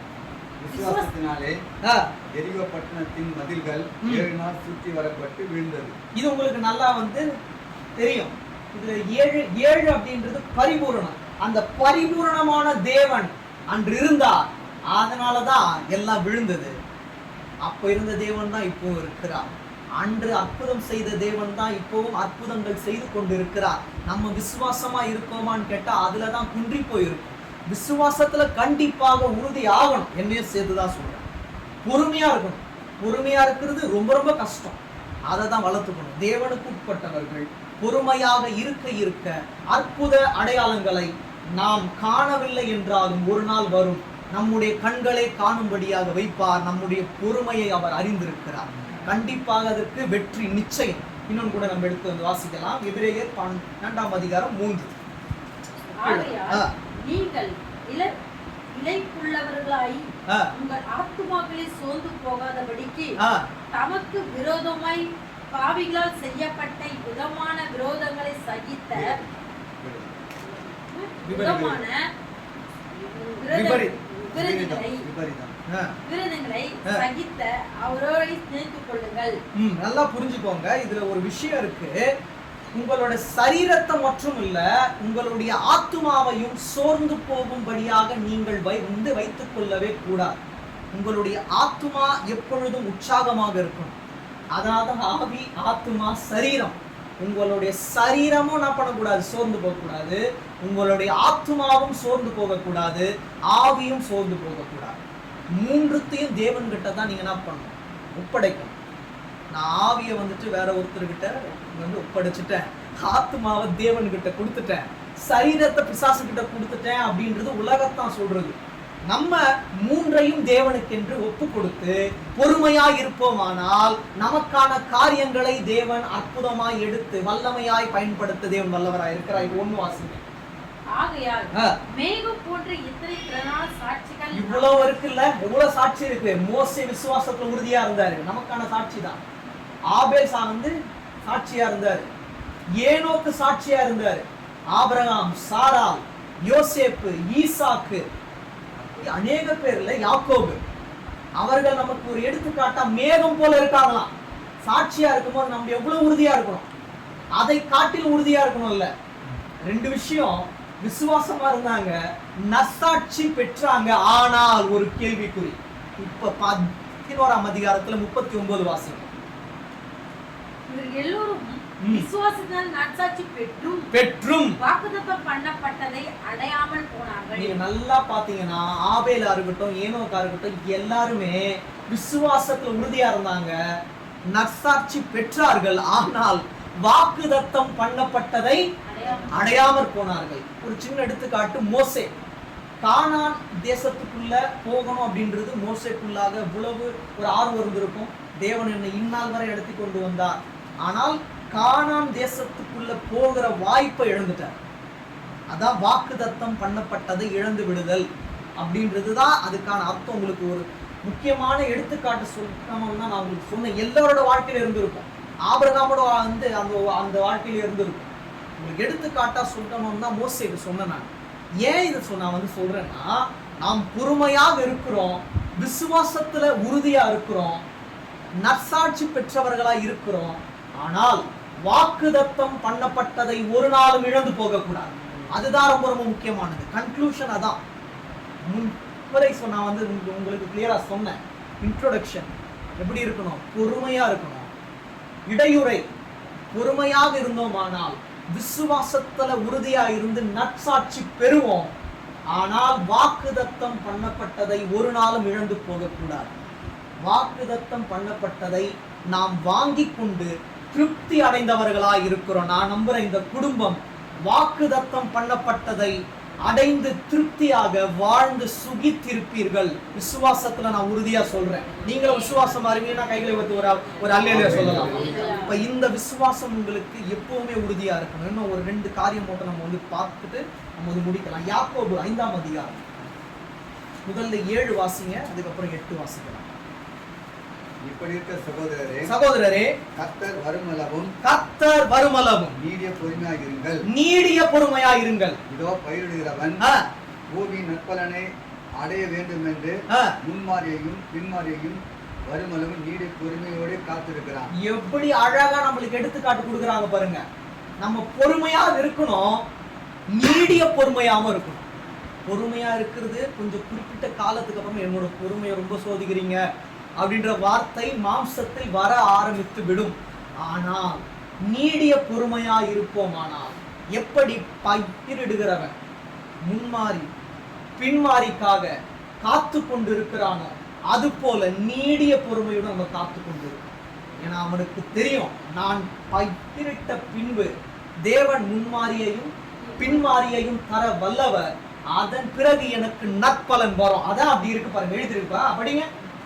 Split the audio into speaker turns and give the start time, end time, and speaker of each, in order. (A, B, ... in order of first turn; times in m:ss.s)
0:00.6-0:01.6 A
0:00.7-0:01.1 B
0:01.8-0:02.1 C
0:02.4-0:06.0 A
0:06.2-0:07.3 C
0:08.0-0:16.8 C
0:17.6-0:31.2 C
0:31.8-0:54.9 C
0:56.0-0:58.1 B
0:56.0-0:56.7 C
0:58.7-1:03.2 B
1:03.7-1:09.2 B
1:08.9-1:09.3 A
1:09.8-1:10.2 A
1:10.9-1:12.1 B
1:11.3-1:11.8 C
1:11.4-1:11.8 A
1:13.3-1:15.1 B
1:13.5-1:14.0 C
1:14.3-1:15.6 A
1:15.7-1:16.0 C
1:16.0-1:19.4 B
1:19.6-1:22.1 C
1:22.7-1:30.4 C
1:30.9-1:34.0 C
1:34.5-1:45.0 C
1:45.6-1:48.7 C
1:49.5-2:10.2 C
2:10.9-2:15.0 B
2:14.3-2:19.2 C
2:19.9-2:20.7 C
2:21.2-2:22.1 C
2:22.8-2:28.0 C
2:28.9-2:30.6 C
2:31.4-2:34.1 C
2:34.6-2:36.7 C
2:37.3-2:38.9 C
2:39.6-2:42.0 C
2:42.5-2:49.1 C
2:50.7-2:53.9 B
2:51.8-2:52.1 C
2:53.9-2:54.6 C
2:54.6-2:57.6 B
2:57.4-3:03.6 C
3:04.3-3:08.6 C
3:08.8-3:09.8 B
3:09.3-3:12.1 C
3:12.8-3:24.6 C
3:25.5-3:28.1 C
3:28.6-3:41.1 C
3:41.6-3:47.6 C
3:48.4-3:57.6 C
3:58.5-4:04.5 C
4:05.3-4:05.8 C
4:06.5-4:11.7 C
4:12.3-4:16.3 C
4:17.0-4:42.8 C
4:34.3-4:35.2 A
4:34.8-4:35.6 B
4:44.1-4:46.5 C
4:47.8-4:49.1 A
4:49.1-4:49.8 C
4:50.0-4:51.1 A
4:51.2-4:52.6 C
4:52.6-4:53.8 A
4:53.9-4:55.4 C
4:55.5-4:56.6 A
4:56.6-4:56.9 C
4:57.3-4:58.3 A
4:58.8-5:04.5 A
4:59.9-5:00.2 C
5:04.6-5:07.2 C
5:07.8-5:09.4 C
5:10.1-5:11.6 C
5:12.3-5:16.4 C
5:17.0-5:25.8 C
5:26.4-5:27.1 C
5:27.8-5:33.6 C
5:34.2-5:37.5 C
5:38.0-5:45.9 C
5:39.6-5:40.2 B